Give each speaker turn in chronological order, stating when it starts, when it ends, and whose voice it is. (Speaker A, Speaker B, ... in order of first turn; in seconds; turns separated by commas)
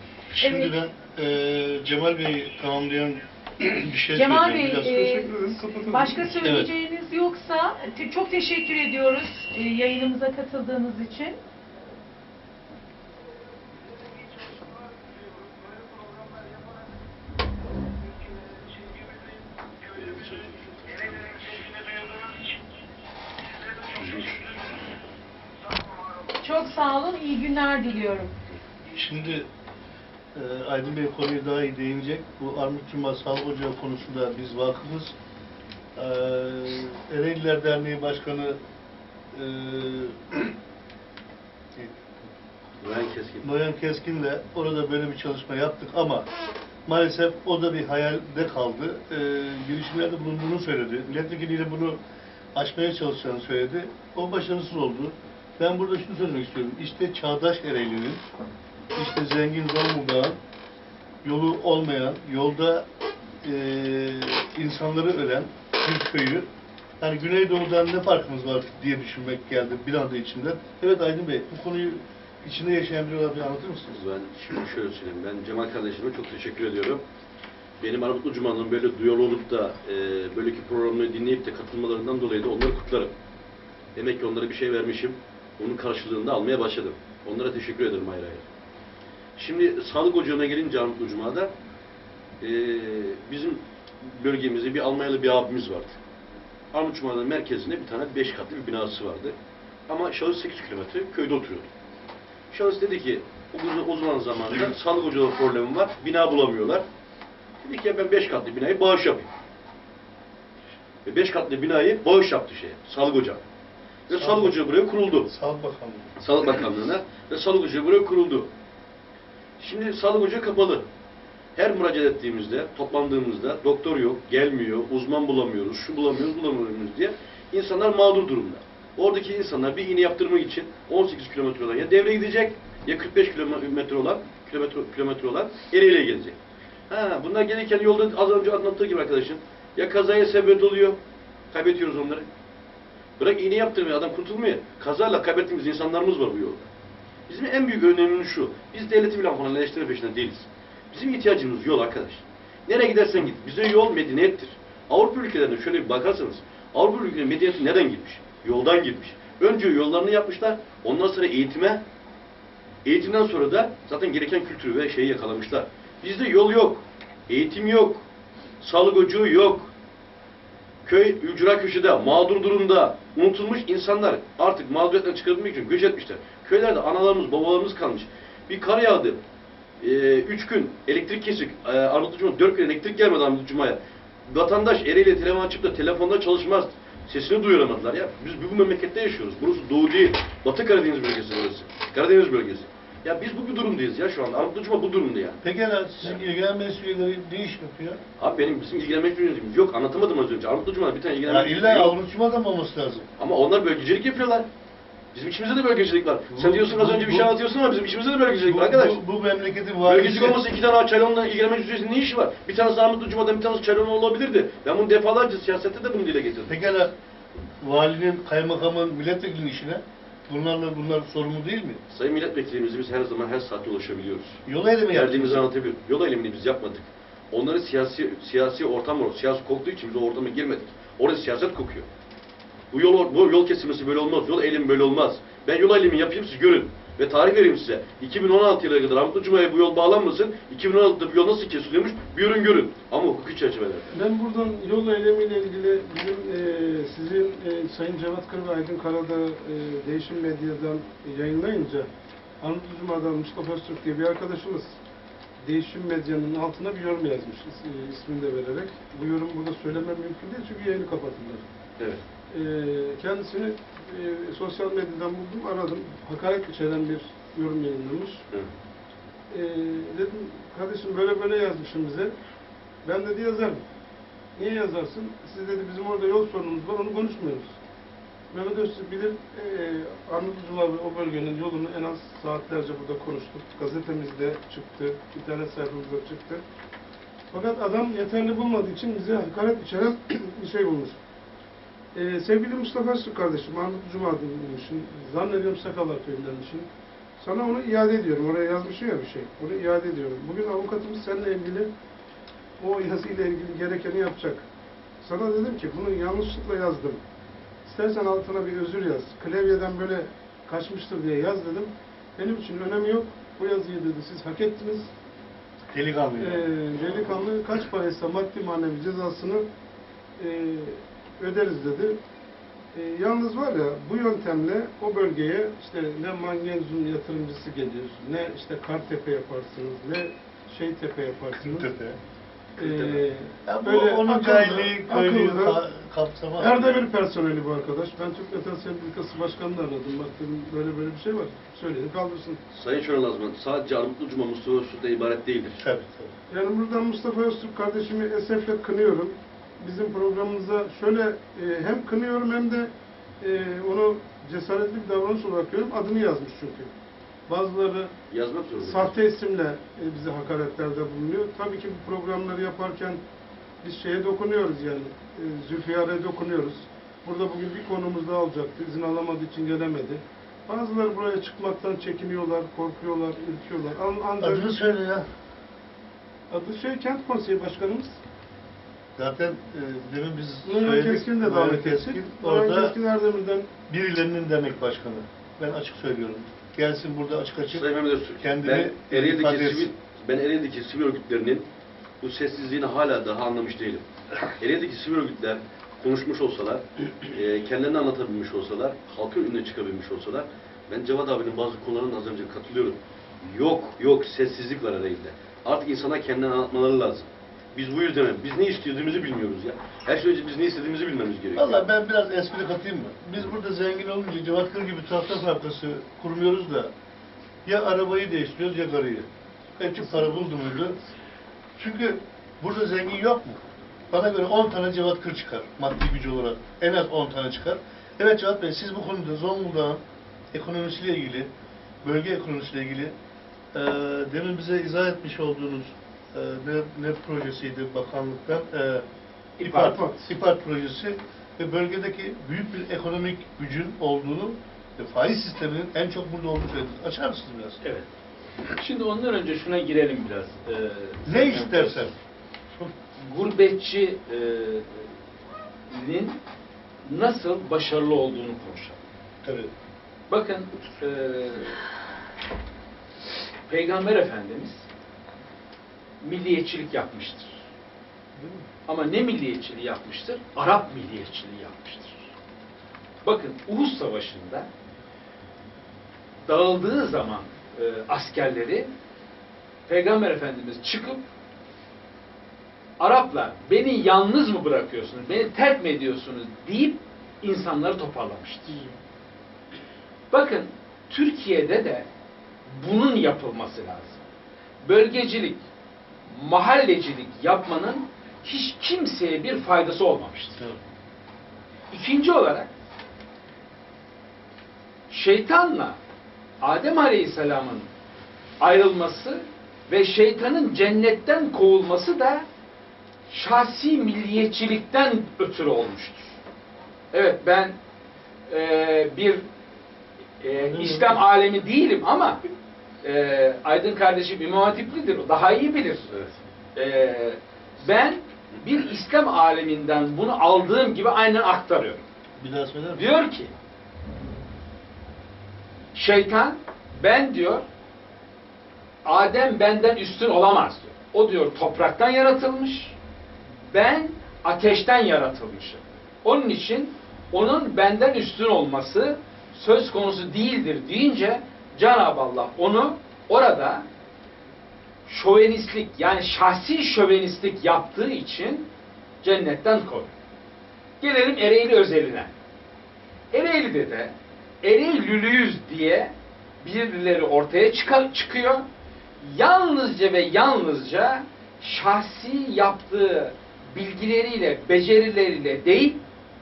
Speaker A: 0.3-5.1, Speaker B: 0.4-0.8, Speaker B: 4.1-11.4, Speaker C: 4.9-6.3, Speaker A: 6.4-6.7, Speaker D: 13.9-16.7, Speaker D: 18.0-22.6, Speaker D: 23.4-25.1, Speaker E: 23.9-24.4, Speaker D: 25.6-26.6, Speaker B: 26.4-28.3, Speaker A: 28.9-29.5, Speaker A: 30.3-35.1, Speaker A: 36.0-38.6, Speaker A: 39.3-40.5, Speaker A: 41.7-42.3, Speaker E: 42.8-43.5, Speaker A: 43.4-46.3, Speaker A: 46.9-52.0, Speaker A: 52.5-58.2, Speaker A: 58.9-60.4, Speaker A: 61.2-62.9, Speaker A: 63.4-66.5, Speaker A: 67.0-74.0, Speaker E: 73.9-77.0, Speaker E: 77.8-83.1, Speaker E: 83.9-88.4, Speaker E: 89.4-91.5, Speaker E: 92.4-96.0, Speaker E: 96.7-99.3, Speaker E: 99.9-101.7, Speaker E: 102.5-106.8, Speaker E: 107.6-109.3, Speaker E: 111.0-113.4, Speaker E: 114.1-115.3, Speaker A: 114.1-114.6, Speaker A: 115.2-116.2, Speaker E: 116.2-118.5, Speaker E: 119.6-120.8, Speaker E: 121.5-136.4, Speaker E: 136.9-141.0, Speaker E: 141.5-142.3, Speaker E: 143.2-146.7, Speaker E: 147.3-161.8, Speaker E: 162.8-168.0, Speaker E: 168.6-169.7, Speaker E: 170.8-179.2, Speaker E: 179.8-195.4, Speaker A: 195.4-198.0, Speaker E: 198.2-201.9, Speaker A: 201.2-203.1, Speaker E: 203.2-204.5, Speaker E: 205.1-209.0, Speaker A: 206.3-207.3, Speaker A: 208.3-210.5, Speaker E: 209.8-216.5, Speaker A: 216.5-216.9, Speaker A: 217.6-221.8, Speaker E: 221.9-231.9, Speaker A: 224.4-225.5, Speaker E: 232.7-244.0, Speaker C: 243.9-251.9, Speaker C: 252.4-254.8, Speaker C: 255.4-261.4, Speaker C: 262.3-268.2, Speaker C: 269.3-272.1, Speaker C: 272.8-273.6, Speaker C: 274.4-277.5, Speaker C: 278.3-286.4, Speaker C: 287.3-291.0, Speaker C: 291.9-296.7, Speaker C: 297.2-301.7, Speaker C: 302.6-304.4, Speaker C: 305.0-307.0, Speaker C: 307.6-314.9, Speaker A: 315.7-316.5, Speaker C: 316.2-319.4, Speaker C: 320.2-322.0, Speaker C: 322.7-331.7, Speaker A: 331.3-332.0, Speaker C: 332.6-335.6, Speaker A: 332.6-336.8, Speaker C: 336.4-342.4, Speaker E: 342.5-345.6, Speaker A: 345.6-346.1, Speaker C: 346.3-356.7, Speaker C: 357.3-357.9, Speaker E: 358.1-358.9, Speaker C: 358.6-363.0, Speaker C: 363.6-374.5, Speaker A: 374.2-375.1, Speaker C: 376.3-378.0, Speaker A: 378.9-382.8, Speaker C: 380.4-383.5, Speaker A: 383.7-387.7, Speaker E: 387.5-391.5, Speaker A: 388.2-389.7, Speaker E: 392.0-411.6, Speaker A: 411.4-416.7, Speaker A: 417.4-420.8, Speaker A: 421.6-431.3, Speaker A: 431.8-432.9, Speaker A: 433.5-438.8, Speaker F: 439.4-439.8, Speaker A: 439.4-447.6, Speaker C: 439.6-440.1, Speaker F: 447.6-447.9, Speaker F: 448.5-451.9, Speaker A: 451.1-451.9, Speaker F: 453.0-454.9, Speaker F: 455.7-456.2, Speaker F: 456.8-458.8, Speaker A: 459.2-459.5, Speaker F: 460.1-461.6, Speaker F: 463.5-464.7, Speaker F: 466.0-467.4, Speaker F: 468.6-472.1, Speaker F: 473.0-474.5, Speaker F: 476.2-478.7, Speaker F: 479.7-481.0, Speaker F: 482.8-488.6, Speaker F: 490.1-491.9, Speaker F: 492.5-494.0, Speaker F: 494.6-495.4, Speaker F: 496.0-500.4, Speaker F: 501.7-502.5, Speaker F: 504.9-505.8, Speaker F: 506.4-507.7, Speaker F: 508.4-512.2, Speaker F: 513.1-516.2, Speaker F: 516.9-517.5, Speaker F: 518.3-519.2, Speaker F: 520.2-522.2, Speaker A: 520.4-521.0, Speaker F: 522.8-525.9, Speaker F: 526.5-531.8, Speaker A: 532.2-532.9, Speaker F: 532.8-533.3, Speaker F: 535.7-537.4, Speaker F: 538.8-542.8, Speaker F: 543.4-553.6, Speaker F: 554.9-558.5, Speaker F: 559.0-559.9, Speaker F: 560.8-562.1, Speaker F: 563.1-568.5, Speaker F: 569.0-575.8